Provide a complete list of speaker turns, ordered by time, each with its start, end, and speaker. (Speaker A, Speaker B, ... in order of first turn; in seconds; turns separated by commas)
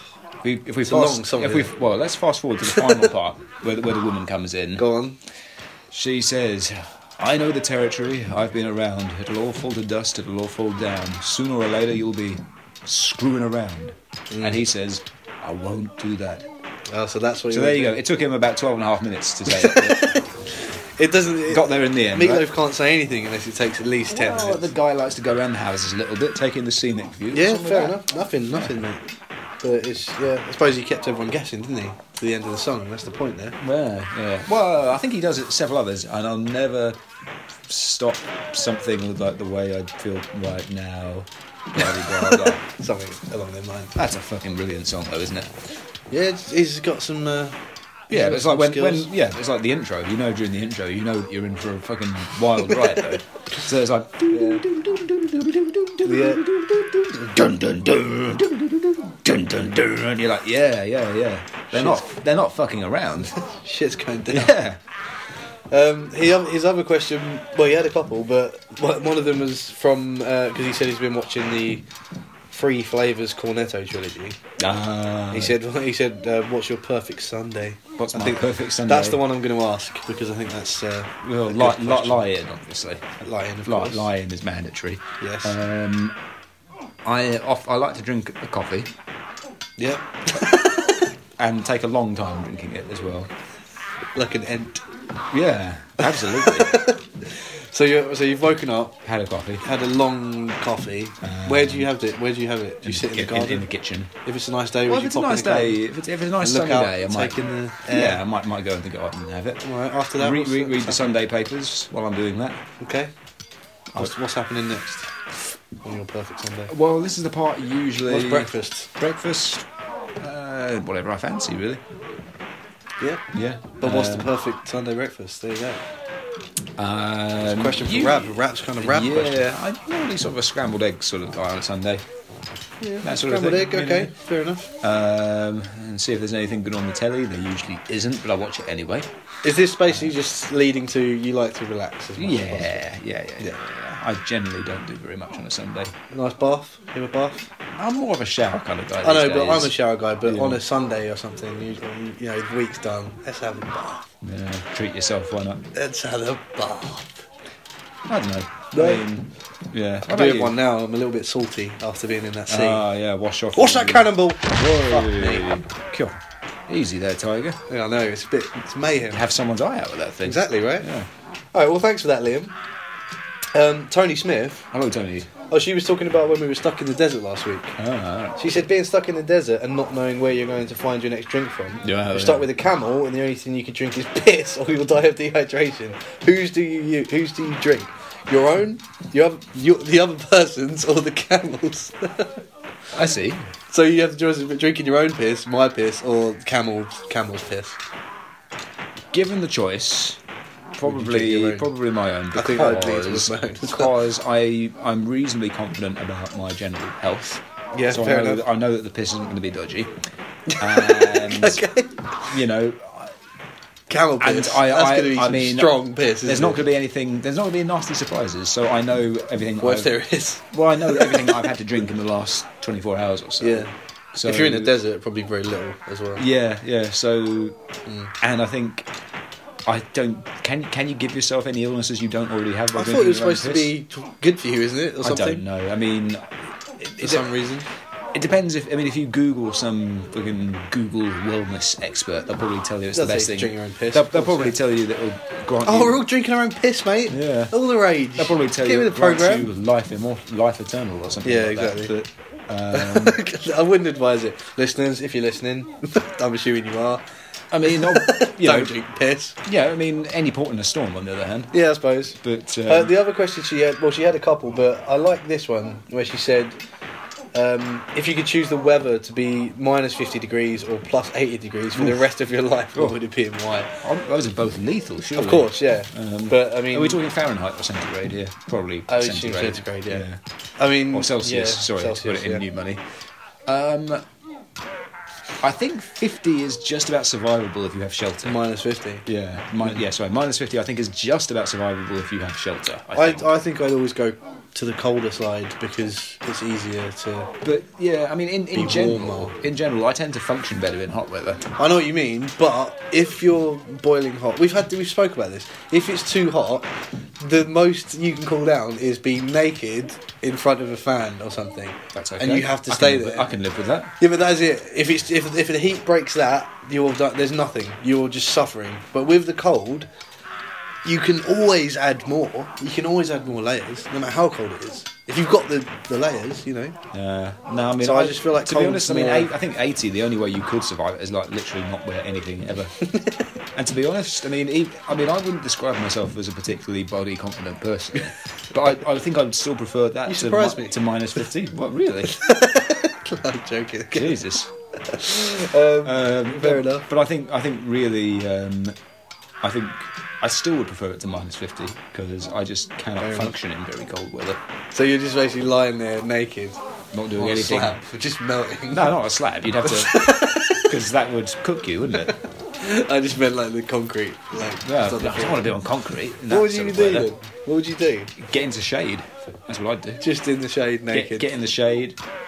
Speaker A: 0.4-4.9, Speaker B: 0.8-1.7, Speaker B: 2.8-3.0, Speaker B: 4.8-5.2, Speaker A: 5.9-16.5, Speaker B: 14.3-14.6, Speaker B: 16.9-18.0, Speaker A: 17.5-20.2, Speaker B: 19.5-20.4, Speaker B: 20.9-24.7, Speaker A: 21.5-22.5, Speaker A: 24.1-28.8, Speaker B: 27.3-29.0, Speaker B: 29.6-33.6, Speaker A: 33.6-37.0, Speaker A: 37.7-42.6, Speaker B: 41.8-44.0, Speaker A: 44.0-45.5, Speaker B: 46.1-47.6, Speaker B: 48.1-49.1, Speaker A: 48.1-63.3, Speaker B: 54.3-54.6, Speaker B: 56.0-56.4, Speaker B: 61.7-62.0, Speaker B: 63.4-64.5, Speaker A: 64.3-64.8, Speaker B: 65.7-71.8, Speaker B: 72.5-74.4, Speaker A: 74.6-75.5, Speaker B: 75.3-82.2, Speaker A: 78.0-79.2, Speaker A: 81.2-83.0, Speaker B: 83.2-84.1, Speaker A: 83.6-86.2, Speaker B: 85.2-85.5, Speaker A: 87.0-88.9, Speaker B: 89.8-91.0, Speaker A: 91.4-93.3, Speaker B: 94.1-94.8, Speaker A: 95.3-96.8, Speaker B: 96.0-99.0, Speaker A: 99.0-99.6, Speaker B: 99.6-103.7, Speaker A: 101.2-101.9, Speaker A: 102.8-104.1, Speaker B: 104.2-105.8, Speaker A: 104.8-112.6, Speaker B: 106.4-108.2, Speaker B: 109.6-111.2, Speaker B: 112.8-113.1, Speaker B: 113.9-115.1, Speaker B: 115.8-116.7, Speaker A: 116.7-119.7, Speaker B: 118.1-118.9, Speaker A: 120.2-121.8, Speaker A: 123.3-124.3, Speaker B: 123.8-125.8, Speaker A: 126.8-132.0, Speaker B: 127.4-129.5, Speaker B: 132.8-134.7, Speaker A: 133.0-134.1, Speaker A: 134.8-139.1, Speaker B: 139.4-142.8, Speaker A: 142.2-145.9, Speaker B: 146.1-147.5, Speaker A: 147.7-150.6, Speaker B: 149.0-154.1, Speaker A: 154.2-155.6, Speaker B: 155.7-157.2, Speaker A: 158.1-160.5, Speaker B: 158.7-159.1, Speaker B: 160.0-162.8, Speaker A: 162.5-167.6, Speaker B: 163.5-165.5, Speaker B: 167.7-169.2, Speaker A: 169.1-171.1, Speaker B: 170.2-170.9, Speaker B: 171.5-172.5, Speaker B: 173.5-174.7, Speaker A: 174.7-175.3, Speaker B: 175.5-177.8, Speaker A: 177.8-178.4, Speaker B: 178.3-192.4, Speaker A: 181.8-182.5, Speaker A: 192.9-193.5, Speaker B: 193.7-197.8, Speaker A: 199.1-200.2, Speaker A: 200.8-209.9, Speaker B: 200.8-201.7, Speaker B: 202.3-204.0, Speaker B: 207.7-208.4, Speaker B: 210.5-212.3, Speaker A: 210.6-211.6, Speaker A: 212.3-213.1, Speaker B: 213.9-216.6, Speaker A: 214.2-219.9, Speaker B: 219.6-221.5, Speaker A: 220.5-224.7, Speaker B: 223.4-226.2, Speaker A: 226.2-227.6, Speaker B: 227.8-228.1, Speaker A: 228.2-228.9, Speaker A: 229.7-233.7, Speaker B: 232.7-235.4, Speaker A: 235.0-237.3, Speaker B: 237.0-237.7, Speaker A: 238.1-246.0, Speaker B: 242.9-244.6, Speaker B: 245.6-249.5, Speaker A: 247.1-247.5, Speaker A: 248.2-253.2, Speaker B: 251.2-251.9, Speaker B: 252.7-257.0, Speaker A: 257.5-258.7, Speaker B: 257.6-259.4, Speaker A: 259.4-261.5, Speaker B: 261.5-266.6, Speaker A: 262.2-262.9, Speaker B: 267.3-273.7, Speaker A: 271.7-272.1, Speaker A: 273.8-280.2, Speaker B: 275.1-277.0, Speaker B: 278.9-280.1, Speaker B: 280.6-282.4, Speaker A: 280.9-282.8, Speaker A: 283.5-284.0, Speaker A: 285.4-288.4, Speaker B: 288.2-289.1, Speaker A: 289.1-293.3, Speaker B: 292.9-297.3, Speaker A: 297.4-301.4, Speaker B: 298.5-299.3, Speaker B: 301.6-306.7, Speaker B: 307.2-313.3, Speaker A: 311.9-313.9, Speaker B: 314.0-319.9, Speaker B: 320.8-326.8, Speaker A: 326.9-332.8, Speaker B: 327.8-329.3, Speaker B: 332.8-333.2, Speaker A: 333.5-342.1, Speaker B: 340.1-340.8, Speaker B: 342.1-344.2, Speaker A: 343.9-344.5, Speaker B: 344.8-346.9, Speaker A: 345.8-348.8, Speaker A: 349.4-354.4, Speaker B: 353.0-353.3, Speaker B: 354.7-356.6, Speaker A: 356.9-357.8, Speaker B: 357.1-359.0, Speaker A: 358.7-362.1, Speaker B: 359.6-360.7, Speaker B: 362.1-365.5, Speaker A: 364.6-367.1, Speaker B: 366.3-368.1, Speaker A: 368.2-370.0, Speaker B: 370.0-371.3, Speaker A: 370.9-372.0